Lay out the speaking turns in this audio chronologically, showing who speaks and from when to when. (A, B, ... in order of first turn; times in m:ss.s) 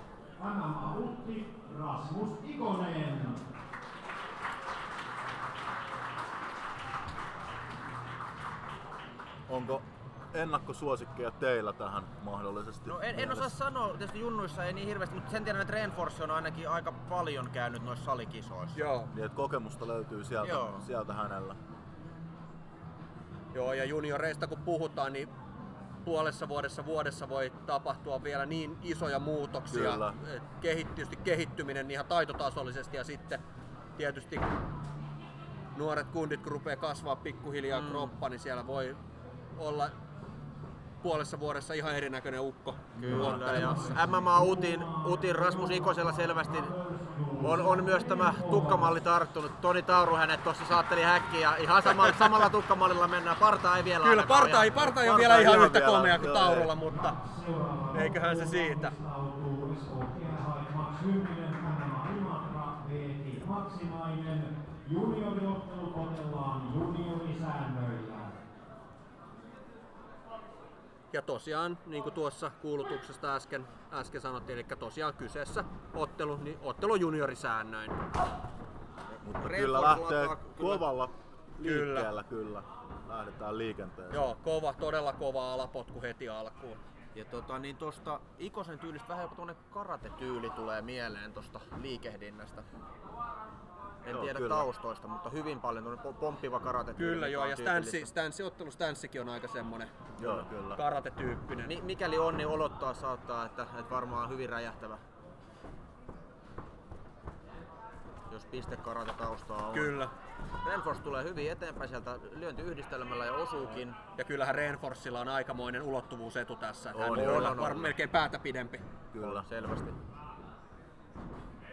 0:00.4-0:03.4 A
0:09.5-0:13.5 B
0:12.8-0:18.8 C
0:18.7-0:19.1 D
0:19.1-0:21.6 B
0:20.4-0:20.8 C
0:23.5-0:25.3 D
0:26.0-0:33.4 D
0:29.7-0:30.2 B
0:34.0-0:34.5 D
0:35.7-0:39.0 D
0:37.7-0:38.1 C
0:39.5-0:39.9 D
0:41.0-0:44.1 D
0:43.0-0:46.8 C
0:43.1-0:49.0 A
0:47.3-0:55.6 C
0:51.9-0:52.4 D
0:54.0-0:57.2 D
0:55.3-0:56.7 B
0:56.8-1:08.3 A
0:57.9-0:58.9 D
1:11.1-1:18.0 D
1:19.1-1:20.8 C
1:19.2-1:24.3 B
1:21.6-1:22.1 D
1:24.1-1:26.8 D
1:27.1-1:32.6 C
1:34.0-1:38.1 C
1:34.1-1:34.7 B
1:37.0-1:39.9 D
1:40.2-1:40.8 B
1:40.7-1:41.7 D
1:41.6-1:45.0 C
1:48.3-1:50.0 C
1:49.7-1:50.1 D
1:50.6-1:54.0 C
1:54.2-1:58.8 D
1:56.9-1:57.7 B
1:57.1-1:57.9 C
1:59.1-1:59.4 B
1:59.2-2:00.0 C